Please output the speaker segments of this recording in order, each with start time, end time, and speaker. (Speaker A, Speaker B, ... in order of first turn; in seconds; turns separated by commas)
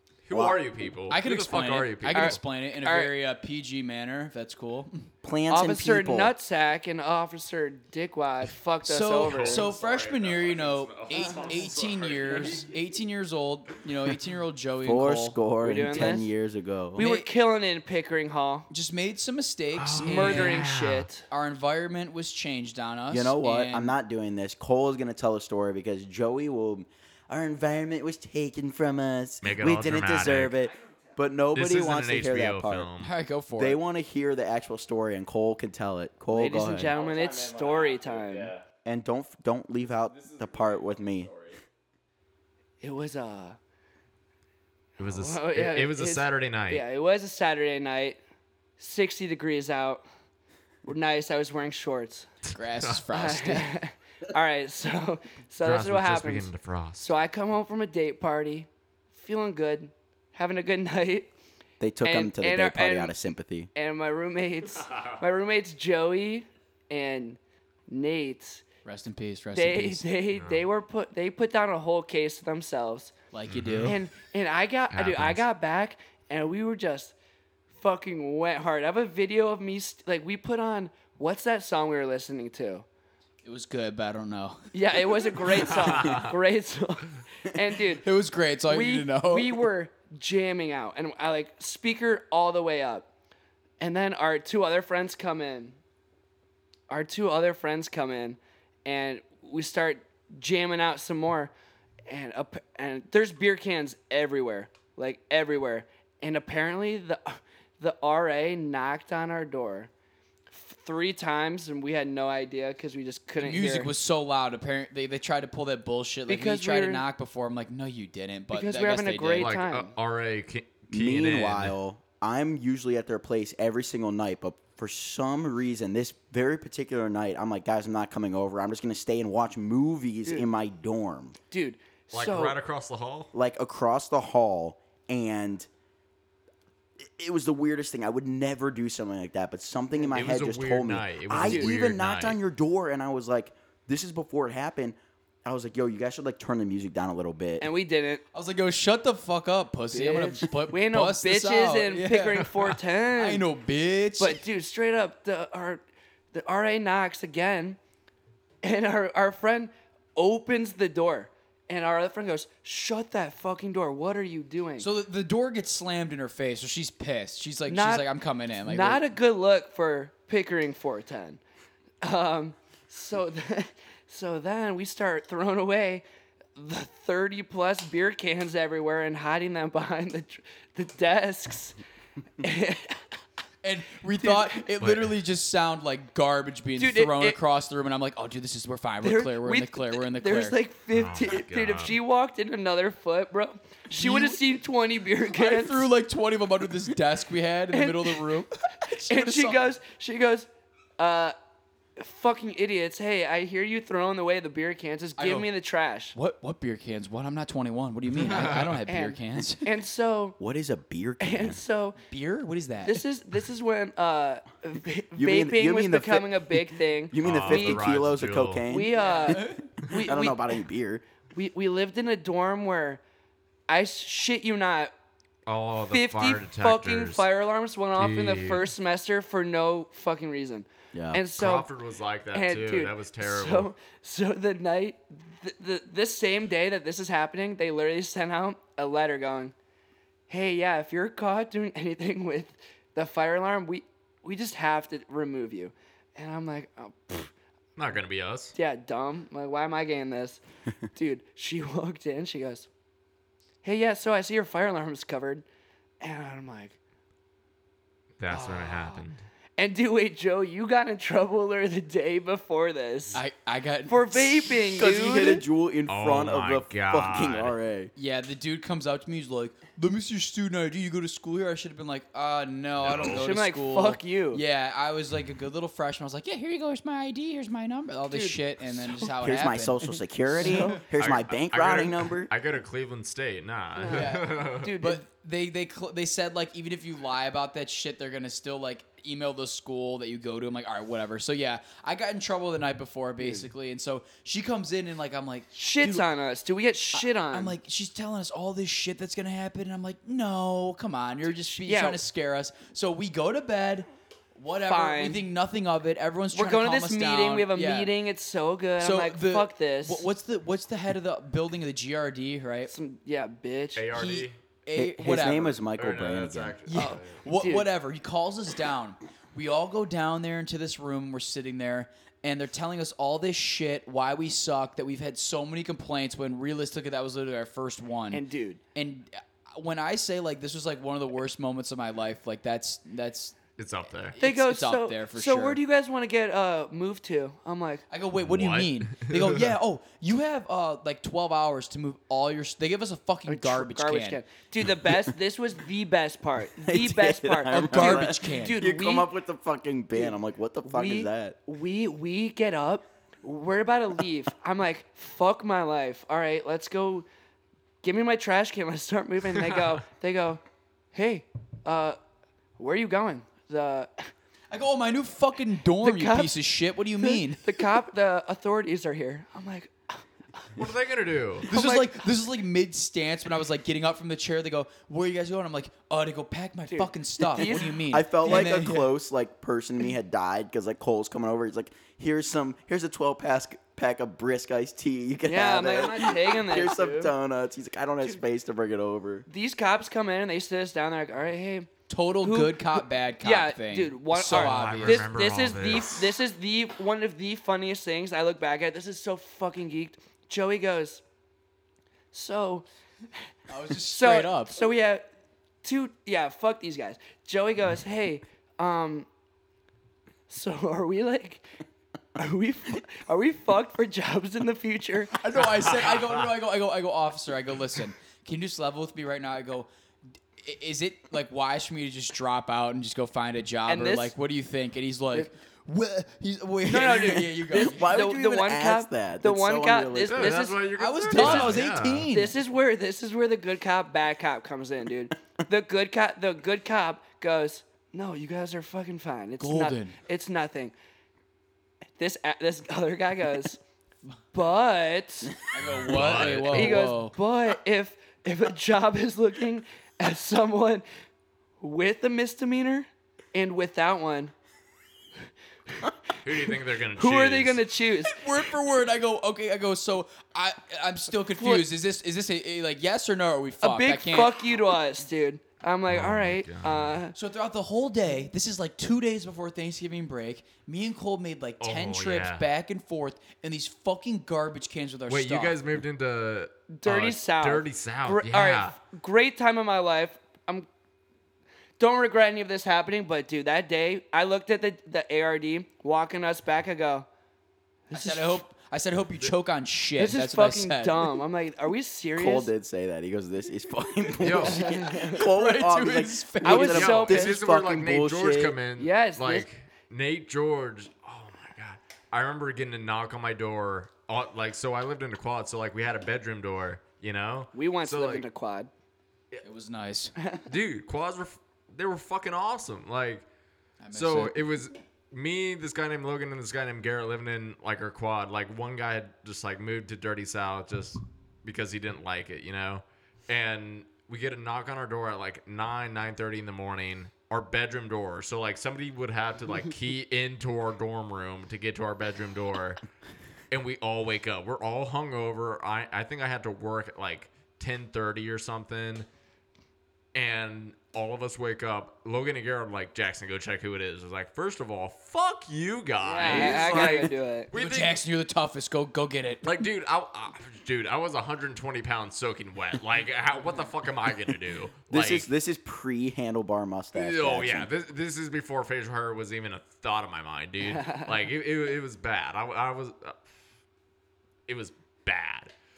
Speaker A: 0.2-2.4, Speaker B: 0.3-0.6, Speaker C: 1.1-5.0, Speaker D: 2.1-3.1, Speaker B: 5.2-6.3, Speaker D: 5.5-9.7, Speaker C: 8.8-15.4, Speaker A: 9.2-12.7, Speaker B: 14.8-17.0, Speaker D: 15.6-16.3, Speaker C: 17.0-17.3, Speaker D: 17.0-18.7, Speaker C: 18.7-20.6, Speaker A: 19.7-21.1, Speaker D: 20.0-21.2, Speaker C: 21.3-23.9, Speaker B: 23.1-32.9, Speaker A: 29.4-30.6, Speaker A: 31.5-33.1, Speaker C: 33.0-33.8, Speaker B: 33.5-36.9, Speaker D: 36.3-38.5, Speaker A: 36.9-38.6, Speaker B: 38.8-41.3, Speaker A: 40.0-41.6, Speaker D: 42.8-43.6, Speaker A: 45.0-46.9, Speaker D: 45.1-48.2, Speaker D: 48.8-50.0, Speaker D: 50.8-52.3, Speaker C: 52.5-53.7, Speaker D: 53.1-56.5, Speaker A: 55.6-57.1, Speaker D: 57.0-61.3, Speaker B: 61.8-63.7, Speaker D: 62.0-63.2, Speaker D: 63.7-68.6, Speaker A: 64.8-65.2, Speaker C: 68.8-70.0, Speaker D: 69.5-73.1, Speaker A: 70.3-70.7, Speaker C: 73.3-74.0, Speaker A: 73.5-74.0, Speaker D: 73.8-77.1, Speaker A: 74.9-75.4, Speaker D: 77.8-82.8, Speaker C: 83.4-85.4, Speaker D: 84.7-88.0, Speaker A: 85.5-86.3, Speaker C: 88.0-89.7, Speaker D: 88.7-93.1, Speaker D: 93.8-95.8, Speaker D: 96.9-101.5, Speaker D: 102.1-109.9, Speaker D: 110.5-113.9, Speaker C: 113.4-119.5, Speaker D: 116.3-117.0, Speaker D: 118.5-119.9, Speaker A: 119.4-121.7, Speaker B: 120.9-131.4, Speaker D: 131.5-132.6, Speaker A: 132.1-133.3, Speaker B: 133.3-135.7, Speaker B: 137.0-147.7, Speaker A: 140.1-142.4, Speaker D: 141.4-141.7, Speaker D: 147.6-148.2, Speaker C: 148.3-152.5, Speaker D: 149.9-153.4, Speaker C: 153.1-154.4, Speaker D: 154.2-157.8, Speaker D: 158.6-164.9, Speaker C: 164.8-169.0, Speaker D: 167.7-168.1, Speaker D: 168.7-171.4, Speaker D: 172.0-176.0, Speaker D: 176.6-181.8, Speaker D: 182.4-183.0, Speaker C: 183.6-190.6, Speaker D: 184.2-184.5, Speaker A: 184.8-185.1, Speaker D: 186.8-187.4, Speaker D: 189.0-195.8, Speaker A: 190.9-192.0, Speaker C: 193.9-194.4, Speaker C: 195.3-199.6, Speaker D: 197.7-198.3, Speaker D: 199.1-201.3, Speaker D: 202.0-206.1, Speaker C: 205.2-205.5, Speaker C: 206.1-209.7, Speaker A: 208.3-208.7, Speaker D: 208.9-210.4, Speaker B: 210.4-211.6, Speaker D: 211.2-212.0, Speaker C: 212.1-213.0, Speaker D: 212.8-217.9, Speaker B: 215.1-219.4, Speaker A: 217.2-218.6, Speaker D: 218.7-220.4, Speaker C: 219.1-219.6, Speaker B: 220.0-221.1, Speaker D: 221.3-223.0, Speaker D: 223.7-224.9, Speaker A: 225.4-227.3, Speaker D: 225.9-231.7, Speaker A: 227.9-228.6, Speaker B: 230.9-231.2, Speaker A: 231.3-233.7, Speaker D: 232.3-239.5, Speaker D: 240.3-247.3, Speaker A: 247.8-248.5, Speaker D: 248.5-250.4, Speaker D: 250.9-252.7, Speaker D: 253.6-255.4, Speaker D: 256.0-256.8, Speaker A: 258.2-259.2, Speaker D: 258.3-259.0, Speaker D: 259.6-263.2, Speaker C: 263.1-264.6, Speaker D: 263.9-265.4, Speaker B: 264.8-267.9, Speaker A: 265.9-267.5, Speaker C: 267.9-279.8, Speaker A: 272.8-273.3, Speaker D: 273.0-274.4, Speaker D: 278.1-279.1, Speaker B: 279.2-282.3, Speaker D: 280.4-280.8, Speaker C: 280.4-280.8, Speaker A: 280.9-284.7, Speaker D: 283.8-285.0, Speaker C: 283.9-296.1, Speaker D: 293.2-293.5, Speaker D: 295.5-297.5, Speaker C: 296.9-307.9, Speaker D: 301.2-302.0, Speaker D: 304.7-305.2, Speaker D: 306.3-310.1, Speaker C: 308.8-312.7, Speaker D: 312.7-313.9, Speaker A: 313.8-314.4, Speaker C: 313.9-315.6, Speaker B: 314.7-316.6, Speaker A: 315.8-317.2, Speaker C: 316.7-328.2, Speaker D: 316.8-317.7, Speaker D: 328.1-328.6, Speaker C: 328.7-333.4, Speaker A: 333.6-334.1, Speaker C: 334.1-335.6, Speaker D: 334.2-337.8, Speaker C: 337.9-344.2, Speaker A: 338.2-339.5, Speaker D: 343.3-349.1, Speaker B: 346.5-351.4, Speaker C: 347.5-348.6, Speaker D: 349.9-357.1, Speaker D: 357.8-360.4, Speaker A: 359.4-359.7, Speaker D: 360.9-362.0, Speaker D: 362.6-364.1, Speaker C: 364.5-367.5, Speaker D: 365.8-366.4, Speaker D: 367.0-370.5, Speaker A: 370.6-371.5, Speaker D: 371.4-371.9, Speaker C: 371.5-378.9, Speaker D: 376.7-377.7, Speaker B: 377.4-389.2, Speaker D: 385.3-387.1, Speaker D: 389.3-401.0, Speaker C: 391.9-395.1, Speaker A: 394.1-396.2, Speaker D: 402.1-402.7, Speaker C: 403.5-404.6, Speaker D: 403.8-405.0, Speaker D: 405.6-409.1, Speaker D: 410.3-411.5, Speaker D: 412.1-415.1, Speaker C: 415.1-419.7, Speaker A: 415.6-416.2, Speaker C: 420.4-427.9, Speaker D: 423.6-424.1, Speaker D: 426.7-431.6, Speaker B: 427.5-430.4, Speaker A: 430.1-432.1, Speaker C: 430.8-432.4, Speaker D: 432.1-440.7, Speaker C: 439.4-439.9, Speaker D: 442.0-443.6, Speaker D: 444.3-445.4, Speaker C: 445.5-447.1, Speaker A: 445.6-446.9, Speaker D: 446.1-450.8, Speaker D: 451.6-454.3, Speaker D: 455.7-458.2, Speaker A: 456.2-457.6, Speaker C: 458.1-464.3, Speaker D: 461.3-461.6, Speaker D: 463.6-467.1, Speaker A: 465.9-467.0, Speaker C: 467.1-475.6, Speaker A: 471.6-472.4, Speaker A: 475.1-478.7, Speaker D: 476.7-480.7, Speaker D: 481.8-487.1, Speaker D: 487.9-488.4, Speaker C: 487.9-491.2, Speaker D: 490.0-492.5, Speaker B: 492.1-498.6, Speaker A: 494.2-494.7, Speaker D: 494.4-495.2, Speaker C: 495.1-496.8, Speaker D: 496.4-497.3, Speaker A: 496.7-508.2, Speaker D: 498.8-499.4, Speaker D: 507.5-508.7, Speaker C: 509.4-510.1, Speaker A: 510.5-513.2, Speaker C: 513.8-514.4, Speaker A: 513.9-532.8, Speaker A: 533.5-539.1, Speaker A: 540.1-548.0, Speaker D: 546.0-547.5, Speaker C: 546.2-547.0, Speaker C: 547.5-549.5, Speaker A: 549.4-555.3, Speaker B: 554.9-557.7, Speaker A: 556.9-563.2, Speaker D: 560.7-561.1, Speaker A: 564.5-565.5